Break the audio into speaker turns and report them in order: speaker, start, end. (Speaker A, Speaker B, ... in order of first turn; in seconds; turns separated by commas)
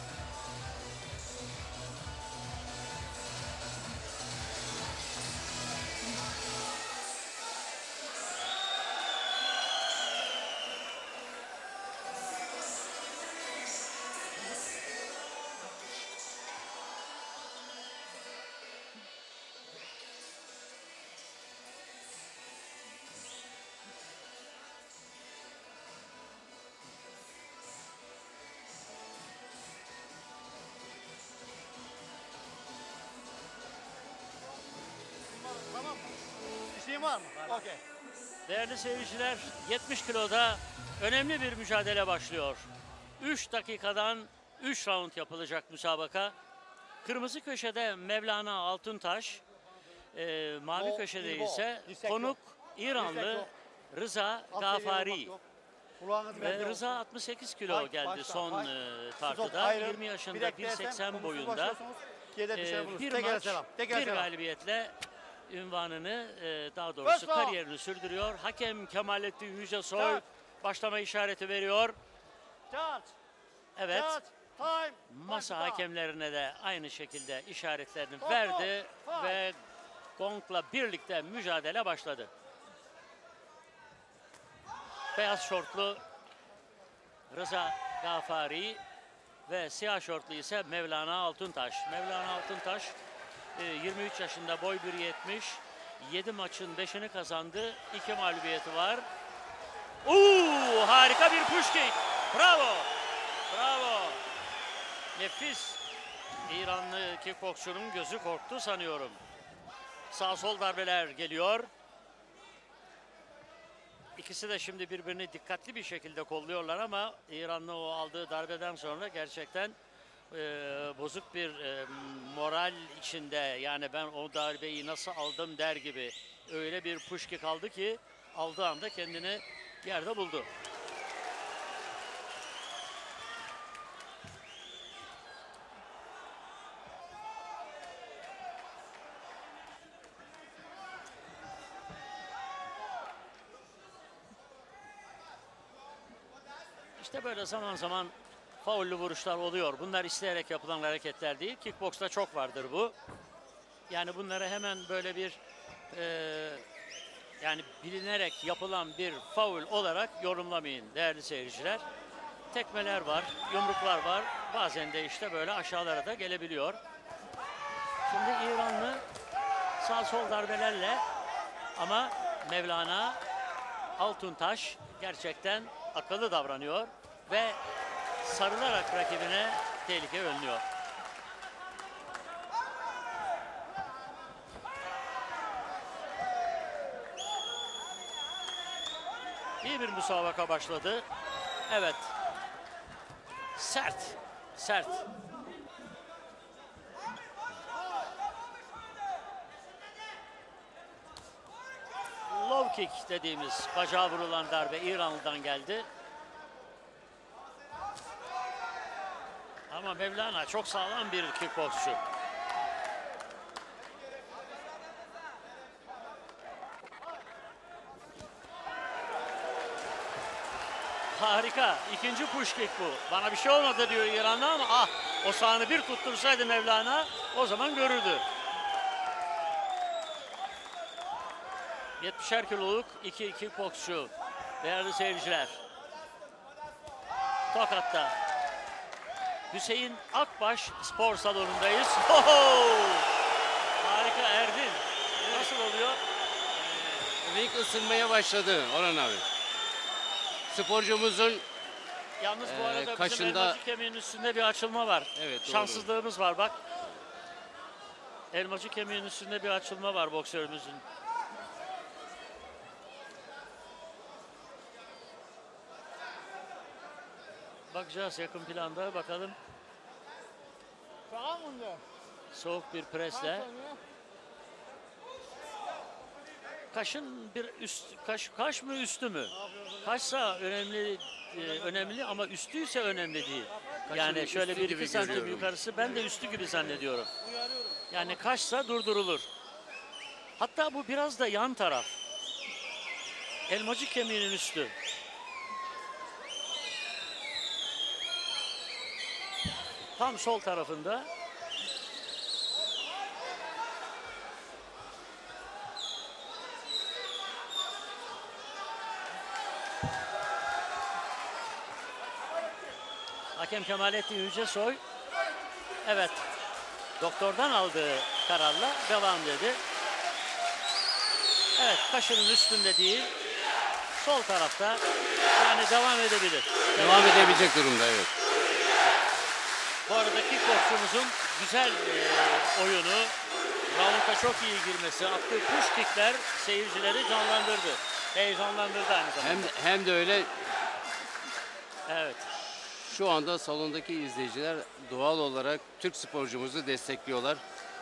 Speaker A: 35.3-36.1, Speaker A: 36.7-37.8, Speaker B: 38.5-42.7, Speaker B: 43.2-46.3, Speaker B: 47.0-49.4, Speaker B: 50.1-55.3, Speaker A: 50.8-52.4, Speaker A: 53.0-53.5, Speaker A: 54.5-55.4, Speaker A: 56.0-56.8, Speaker B: 56.4-61.8, Speaker A: 57.7-58.7, Speaker A: 59.2-64.3, Speaker B: 62.5-65.0, Speaker B: 65.5-72.0, Speaker A: 67.0-67.6, Speaker A: 70.0-70.2, Speaker A: 72.7-73.1, Speaker B: 73.8-74.2, Speaker A: 73.9-75.8, Speaker B: 75.1-79.6, Speaker A: 78.2-79.4, Speaker B: 80.2-82.3, Speaker B: 85.1-86.0, Speaker B: 87.3-88.8, Speaker B: 89.5-93.0, Speaker B: 93.5-99.0, Speaker B: 100.0-102.9, Speaker B: 103.5-104.2, Speaker B: 105.1-105.8, Speaker B: 106.5-109.2, Speaker B: 110.1-111.7, Speaker B: 114.2-119.8, Speaker B: 120.3-130.5, Speaker B: 147.0-152.9, Speaker B: 153.9-155.4, Speaker B: 155.9-156.6, Speaker B: 157.4-161.8, Speaker B: 162.5-166.8, Speaker B: 168.1-169.0, Speaker B: 169.8-171.0, Speaker B: 171.8-173.2, Speaker B: 174.0-177.6, Speaker B: 178.2-180.6, Speaker B: 189.6-191.1, Speaker B: 191.7-192.1, Speaker B: 193.5-195.1, Speaker B: 202.3-205.9, Speaker B: 209.7-212.0, Speaker B: 221.1-228.2, Speaker B: 232.0-235.6, Speaker B: 237.5-238.2, Speaker B: 239.5-243.1, Speaker B: 243.8-246.0, Speaker C: 245.2-245.5, Speaker B: 246.5-247.1, Speaker C: 247.2-249.2, Speaker C: 250.5-251.4, Speaker B: 252.2-256.6, Speaker C: 252.4-253.6, Speaker C: 255.2-255.9, Speaker B: 258.3-260.8, Speaker B: 267.7-269.4, Speaker A: 271.1-271.8, Speaker B: 272.3-273.5, Speaker A: 273.1-273.8, Speaker B: 276.7-287.1, Speaker A: 279.4-279.9, Speaker C: 283.9-286.8, Speaker A: 287.2-287.8, Speaker B: 287.9-289.3, Speaker B: 290.4-292.0, Speaker B: 293.5-294.7, Speaker B: 300.0-301.1, Speaker B: 313.3-314.8, Speaker B: 315.8-316.2, Speaker B: 317.0-319.6, Speaker B: 321.6-323.1, Speaker B: 324.0-324.8, Speaker B: 325.4-327.5, Speaker C: 326.8-328.1, Speaker B: 329.9-333.1, Speaker B: 333.7-339.5, Speaker C: 339.2-340.5, Speaker B: 341.9-342.3, Speaker C: 342.8-347.4